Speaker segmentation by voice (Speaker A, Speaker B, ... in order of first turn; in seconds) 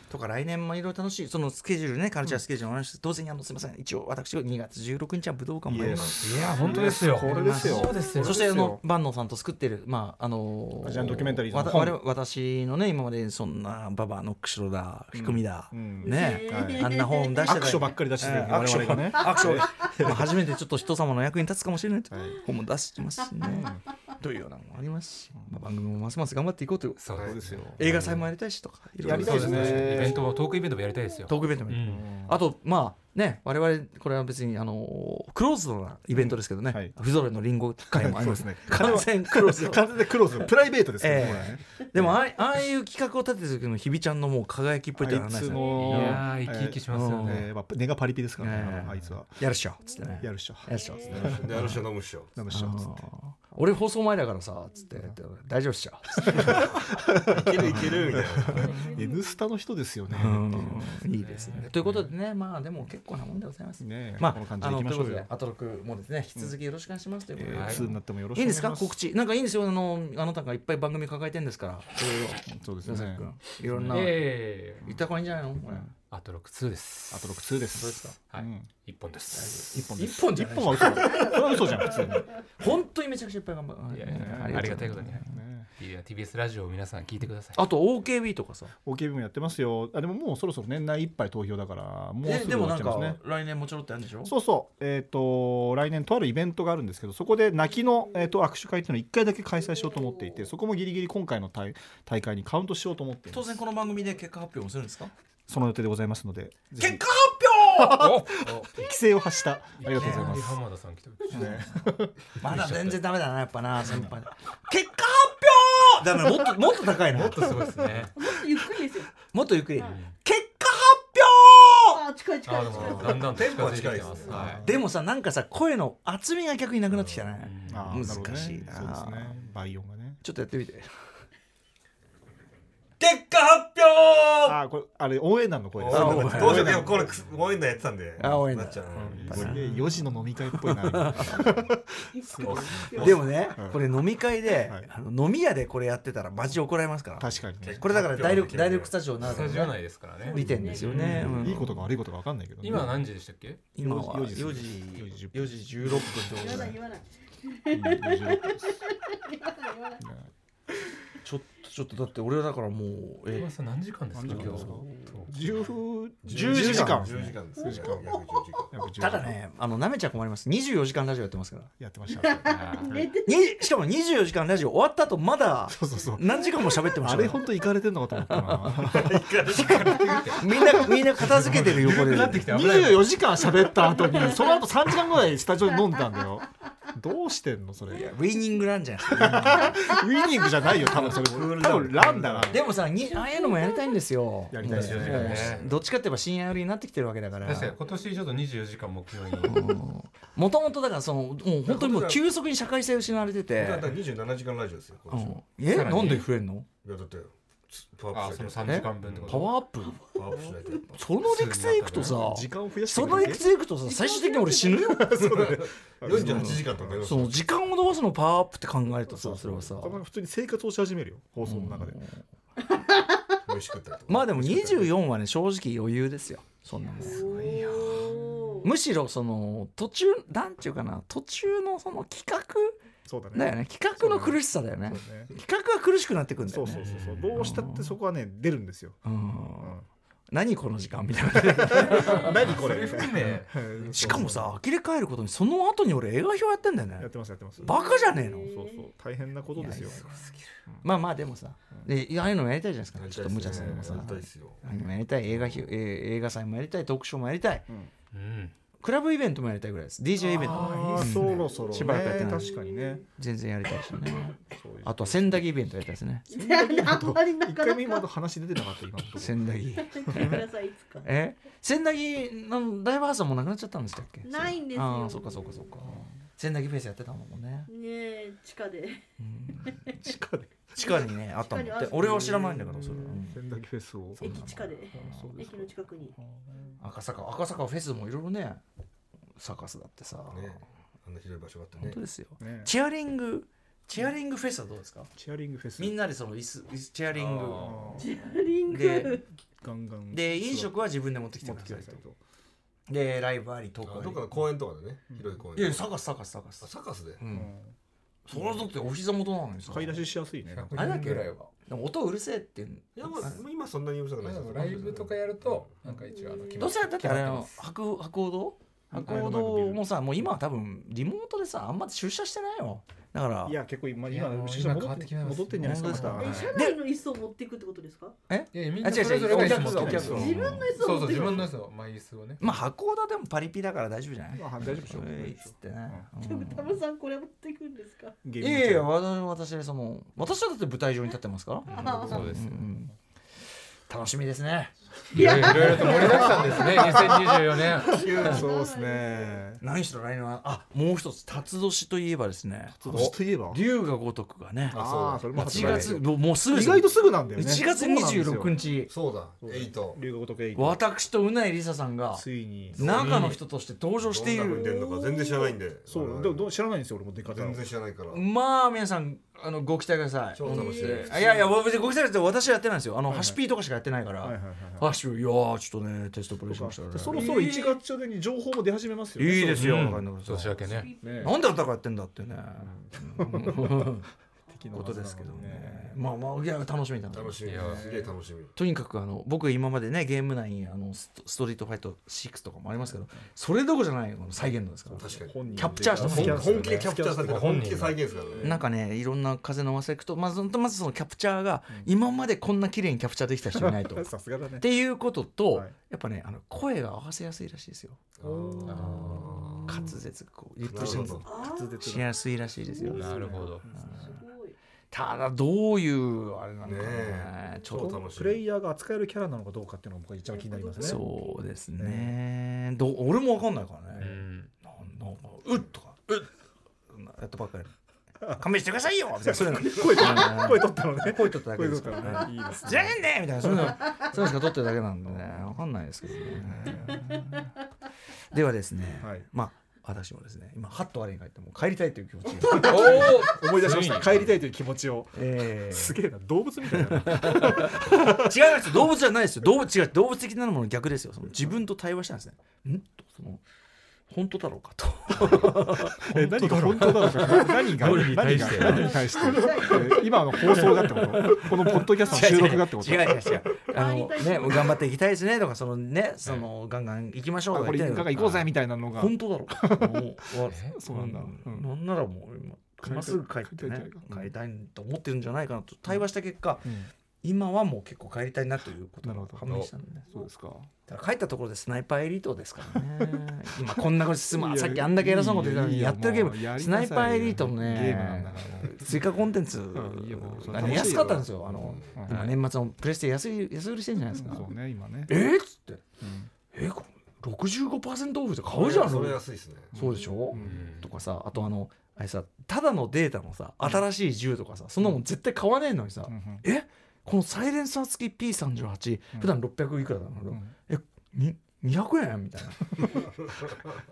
Speaker A: 0.1-6.1, 7.2-27.2, 27.8-30.1, 31.3-40.5, 41.0-46.2, 46.9-47.5, 48.4-51.8, 52.5-56.8, 60.1-75.9, 77.7-78.2, 79.3-85.2, 87.5-88.7, 92.2-94.3, 103.3-105.1, 106.8-108.3, 109.9-110.3, 112.4-117.7, 119.3-122.0, 124.6-129.4, 130.2-130.9, 135.9-136.9, 138.2-139.6, 140.6-141.3, 143.0-151.8, 153.7-156.8, 161.2-163.5, 164.3-165.2, 166.3-167.2, 169.0-171.7, 173.2-177.5, 178.2-179.1, 180.2-182.5, 187.9-189.8, 192.5-197.8, 199.4-203.9, 205.1-206.7, 208.6-210.0, 210.9-215.2, 216.1-220.0, 221.4-222.2, 224.1-227.3, 228.6-232.8, 233.3-237.9, 239.0-239.8, 240.3-242.5, 243.9-247.1, 247.6-248.5, 249.5-250.2, 250.8-257.7, 258.8-262.5, 263.2-266.2, 269.1-270.4, 271.0-277.7, 279.2-280.1, 280.8-283.4, 284.2-285.3, 286.8-288.6, 289.4-290.6, 291.8-295.1, 295.8-298.0, 298.7-299.2, 300.1-302.0, 302.9-304.2, 305.5-307.5, 308.3-310.0, 310.7-313.4, 316.6-323.6, 325.6-326.8, 328.3-330.7, 332.4-336.8, 338.4-342.9, 343.9-344.7, 349.6-358.9, 360.5-365.0, 368.1-377.6, 379.2-380.6, 381.2-384.1, 384.7-387.4, 388.5-396.7, 398.4-408.0, 408.6-411.2, 411.8-414.1, 414.9-418.1, 420.8-426.3, 426.9-427.7, 428.3-437.1, 438.3-443.2, 445.1-446.0, 446.7-453.4, 454.1-458.0, 460.3-476.6, 477.2-480.1, 480.9-494.5, 495.1-495.8, 496.5-513.1
Speaker B: 5.7-8.8, 10.8-12.0, 15.1-16.9, 17.4-20.3, 22.1-22.4, 23.4-23.8, 27.2-28.2, 29.0-30.2, 31.8-32.4, 36.1-37.0, 37.9-42.2, 45.0-49.5, 50.2-51.7, 52.3-53.0, 56.3-61.0, 63.8-65.3, 67.3-69.0, 72.4-74.2, 74.8-75.1, 75.6-75.9, 77.1-78.7, 79.7-82.3, 84.1-85.7, 88.8-93.2, 94.2-103.6, 105.5-107.0, 107.6-110.6, 111.3-112.2, 113.8-114.1, 117.8-118.0, 124.3-124.9, 127.7-130.2, 134.4-137.1, 138.9-143.9, 144.5-144.9, 147.2-147.8, 150.6-153.0, 153.8-156.3, 157.7-158.7, 160.0-160.3, 164.1-168.1, 168.7-169.4, 171.8-173.1, 175.7-176.2, 177.0-179.7, 181.6-188.1, 189.1-192.6, 194.5-195.6, 212.1-213.4, 214.8-217.1, 219.1-222.0, 224.3-224.9, 227.2-228.2, 233.0-235.3, 236.4-239.9, 241.5-244.5, 247.0-247.8, 248.4-250.1, 253.5-254.0, 260.2-263.0, 264.5-265.5, 266.3-270.4, 275.8-276.1, 280.0-280.8, 281.9-284.3, 284.9-286.8, 292.4-292.7, 295.1-296.0, 297.2-298.1, 299.6-300.8, 301.4-302.2, 305.1-305.4, 307.3-307.7, 309.6-311.1, 318.9-319.9, 323.4-326.4, 329.3-330.4, 334.3-336.1, 338.2-338.9, 341.8-342.3, 345.2-349.6, 352.7-353.6, 354.7-358.5, 359.4-360.8, 362.1-362.9, 365.9-367.6, 373.1-373.4, 374.2-374.9, 376.5-380.0, 381.0-381.3, 382.6-384.0, 384.5-386.0, 387.5-388.1, 394.9-397.9, 403.5-404.7, 408.2-409.9, 410.7-412.1, 412.8-414.1, 417.8-421.0, 421.8-422.1, 429.2-434.0, 435.0-435.5, 436.4-437.4, 439.0-439.3, 442.4-448.5, 455.3-463.2, 467.5-471.7, 472.8-474.3, 476.6-476.9, 479.0-479.4, 480.1-480.7, 482.7-489.0, 489.7-491.4, 491.9-492.4, 494.1-495.1, 496.0-496.3, 499.7-500.8, 503.6-503.9, 506.1-506.4, 510.3-510.5
Speaker C: 5.8-6.1, 27.1-27.4, 51.1-52.3, 57.3-58.8, 122.7-124.6, 126.9-127.3, 133.0-134.6, 135.7-139.6, 142.3-143.3, 147.6-149.7, 166.2-168.8, 178.8-183.6, 190.6-192.6, 194.7-195.7, 201.6-202.2, 203.6-205.4, 206.8-209.5, 210.1-212.1, 215.2-217.4, 223.4-224.8, 252.9-254.6, 290.3-292.0, 303.8-305.9, 306.6-307.2, 312.9-315.7, 358.9-360.0, 362.7-363.4, 364.0-366.4, 367.2-368.2, 370.3-371.5, 387.1-388.5, 394.9-398.6, 408.2-409.9, 410.7-411.3, 416.6-418.4, 479.4-479.7, 490.5-492.1, 498.5-499.7, 512.9-513.7
Speaker D: 6.2-8.4, 27.0-28.1, 29.0-32.0, 45.6-47.4, 61.1-62.1, 67.5-67.9, 73.9-74.8, 76.1-79.8, 83.9-87.6, 108.3-108.8, 109.8-111.6, 112.4-113.1, 117.1-118.1, 119.8-120.1, 122.4-124.6, 127.4-128.4, 139.0-139.8, 149.2-151.4, 152.6-153.6, 163.3-165.7, 172.5-173.0, 179.9-180.4, 194.6-195.7, 197.4-199.6, 205.7-206.3, 208.1-209.5, 211.2-212.2, 227.4-227.9, 236.8-237.3, 241.9-244.3, 250.1-250.4, 258.1-258.5, 260.4-261.5, 310.5-311.4, 314.2-317.6, 324.1-326.5, 328.5-332.5, 341.7-342.6, 345.1-348.2, 355.5-355.9, 362.9-363.4, 377.1-377.5, 379.6-380.9, 387.4-387.9, 397.2-398.0, 412.9-413.6, 423.9-424.5, 442.4-444.3, 457.5-459.2, 470.5-470.8, 500.3-500.9
Speaker E: 16.0-17.9, 45.5-46.0, 50.0-51.2, 58.5-59.4, 99.7-100.5, 118.1-119.1, 121.9-123.3, 142.1-143.2, 150.2-151.1, 156.3-160.0, 167.6-168.4, 172.1-173.5, 183.7-184.6, 189.7-190.0, 193.1-193.9, 209.9-210.8, 213.1-215.2, 222.7-223.3, 227.0-228.7, 247.6-248.9, 262.5-263.0, 266.3-268.1, 269.8-271.1, 274.2-275.7, 277.7-279.0, 279.6-280.0, 280.8-282.5, 284.2-286.1, 298.0-299.2, 316.1-316.7, 326.1-328.2, 329.9-331.5, 336.2-338.2, 341.7-342.2, 345.1-349.4, 357.2-357.6, 364.8-365.6, 370.4-371.3, 380.6-381.4, 398.1-398.6, 411.2-412.0, 412.7-414.6, 420.3-421.3, 458.6-460.6, 462.1-462.4, 463.7-464.8